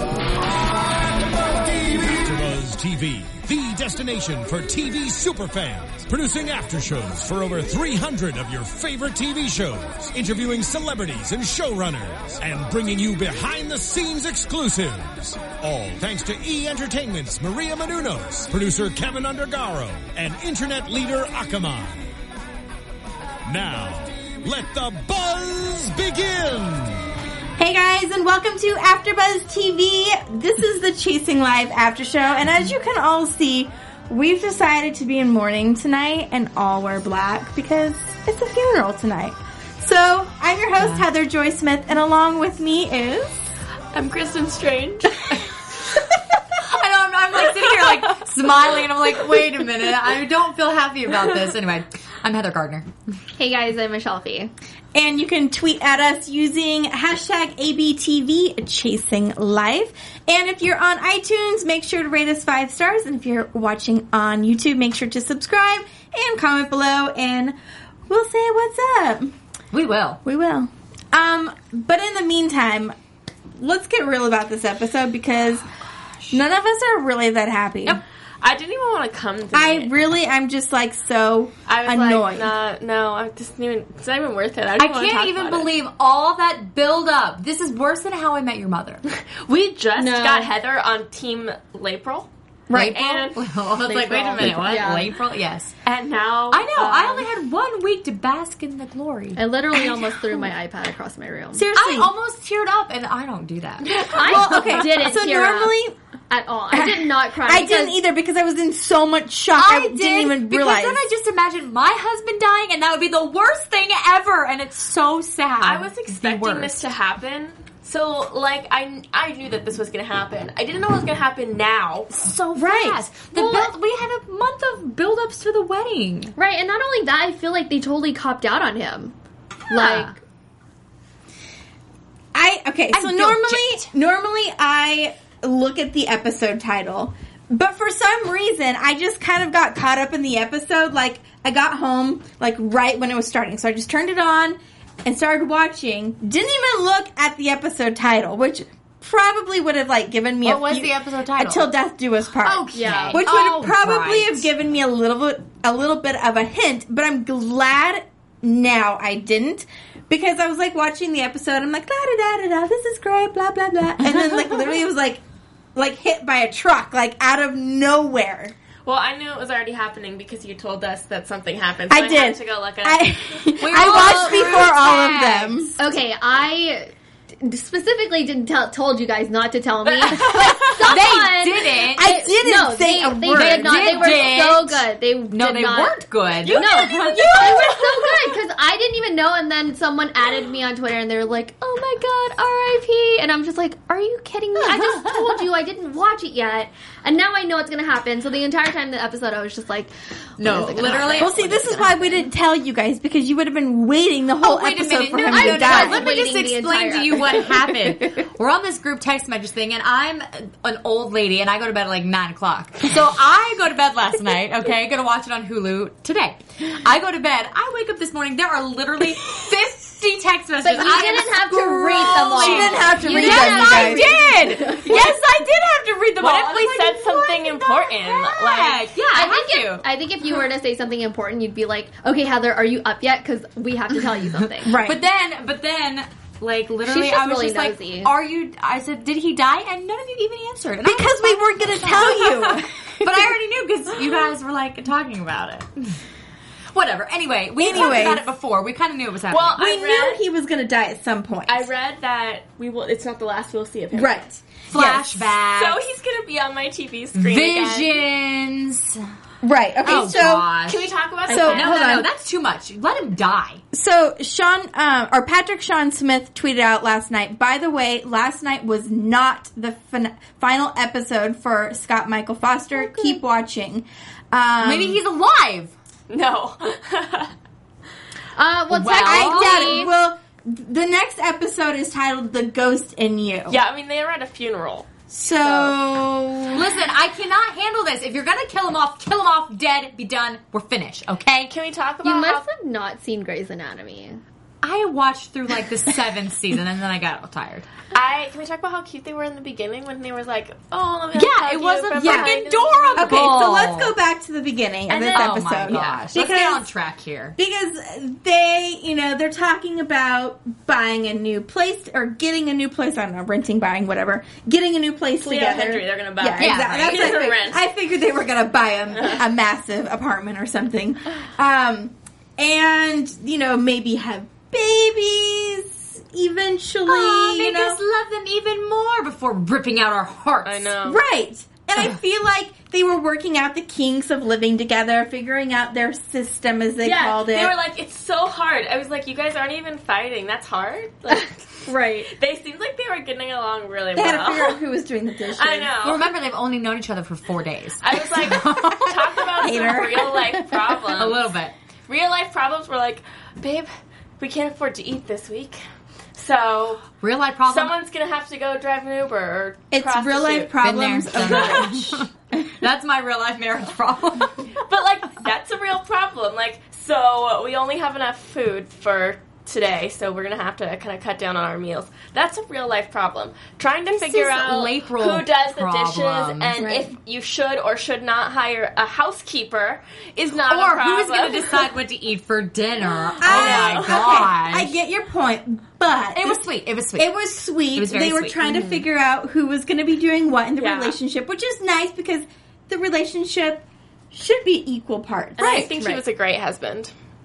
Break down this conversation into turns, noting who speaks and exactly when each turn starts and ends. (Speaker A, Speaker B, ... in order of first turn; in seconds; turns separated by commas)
Speaker A: 1.5-22.1, Speaker A: 23.4-27.0, Speaker B: 27.6-43.4, Speaker C: 40.8-41.1, Speaker D: 43.9-45.3, Speaker C: 46.6-52.9, Speaker E: 53.4-54.5, Speaker B: 54.9-67.5, Speaker B: 68.1-69.3, Speaker C: 69.7-70.2, Speaker B: 70.2-72.9, Speaker B: 73.6-75.7, Speaker B: 76.3-78.0, Speaker D: 78.4-79.9, Speaker B: 79.5-82.5, Speaker D: 81.7-85.7, Speaker C: 84.8-89.0, Speaker D: 89.1-94.7, Speaker E: 90.0-90.5, Speaker B: 92.7-93.0, Speaker C: 92.7-95.7, Speaker E: 94.5-95.1, Speaker D: 95.8-97.3, Speaker C: 96.5-99.4, Speaker E: 99.3-101.6, Speaker B: 101.5-102.1, Speaker C: 101.7-104.0, Speaker D: 103.8-104.6, Speaker E: 104.1-105.8, Speaker B: 104.2-106.0, Speaker C: 104.6-104.8, Speaker E: 106.3-108.0, Speaker B: 106.7-111.0, Speaker C: 109.5-116.8, Speaker D: 115.6-122.1, Speaker C: 122.1-126.3, Speaker B: 122.5-123.0, Speaker E: 123.3-123.7, Speaker E: 126.3-129.1, Speaker E: 129.7-130.2, Speaker C: 129.7-130.1, Speaker B: 132.3-165.2, Speaker C: 132.9-133.9, Speaker C: 150.4-151.7, Speaker C: 152.4-154.5, Speaker E: 152.7-153.2, Speaker B: 165.7-168.5, Speaker D: 168.8-173.5, Speaker B: 171.9-175.8, Speaker C: 173.6-175.7, Speaker E: 173.9-174.3, Speaker E: 175.8-186.0, Speaker D: 180.0-180.5, Speaker C: 180.0-182.2, Speaker B: 181.9-184.4, Speaker C: 183.3-187.9, Speaker D: 186.4-187.9, Speaker E: 186.5-202.2, Speaker C: 194.6-195.4, Speaker C: 200.4-201.4, Speaker B: 201.1-206.1, Speaker C: 204.4-229.9, Speaker E: 205.3-208.0, Speaker E: 220.6-225.1, Speaker B: 220.7-224.2, Speaker D: 226.2-228.9, Speaker E: 229.1-234.8, Speaker C: 234.3-246.0, Speaker B: 234.6-235.0, Speaker E: 236.8-238.1, Speaker B: 240.8-243.3, Speaker C: 246.7-249.6, Speaker B: 247.6-248.2, Speaker D: 249.3-250.2, Speaker B: 249.6-251.7, Speaker D: 251.5-254.2, Speaker B: 253.9-255.3, Speaker C: 254.7-255.8, Speaker D: 255.5-258.0, Speaker C: 257.1-259.0, Speaker B: 259.4-260.5, Speaker C: 259.8-263.6, Speaker D: 259.9-262.1, Speaker B: 261.3-262.1, Speaker B: 263.7-275.0, Speaker E: 272.8-273.2, Speaker C: 274.6-275.7, Speaker D: 276.1-277.3, Speaker E: 278.4-279.9, Speaker C: 278.7-279.9, Speaker B: 278.9-283.6, Speaker D: 283.5-285.8, Speaker B: 285.1-286.7, Speaker C: 286.5-291.5, Speaker D: 291.5-292.4, Speaker E: 292.0-294.2, Speaker C: 294.6-297.7, Speaker D: 297.9-303.2, Speaker C: 301.1-303.9, Speaker B: 302.0-302.4, Speaker B: 302.9-306.7, Speaker C: 304.9-307.4, Speaker D: 305.1-306.0, Speaker B: 307.4-327.8, Speaker D: 315.2-317.6, Speaker C: 316.4-317.2, Speaker D: 319.0-319.2, Speaker C: 326.9-330.7, Speaker D: 330.4-331.0, Speaker B: 330.9-337.5, Speaker D: 336.8-344.6, Speaker E: 341.7-342.1, Speaker B: 343.9-345.7, Speaker D: 345.3-346.1, Speaker C: 345.8-349.5, Speaker D: 347.8-351.3, Speaker B: 349.3-350.7, Speaker C: 350.9-351.5, Speaker D: 351.9-355.6, Speaker D: 356.1-356.9, Speaker C: 357.0-357.8, Speaker D: 357.5-360.5, Speaker B: 359.7-362.4, Speaker C: 360.6-362.1, Speaker D: 361.1-361.9, Speaker C: 362.6-364.5, Speaker D: 364.5-381.7, Speaker C: 373.9-376.6, Speaker B: 376.6-376.9, Speaker C: 380.5-384.7, Speaker D: 383.2-384.3, Speaker B: 383.2-386.4, Speaker C: 386.1-388.4, Speaker B: 386.9-395.7, Speaker D: 388.4-388.8, Speaker D: 390.6-391.0, Speaker D: 395.4-396.9, Speaker C: 395.4-395.6, Speaker E: 395.7-396.0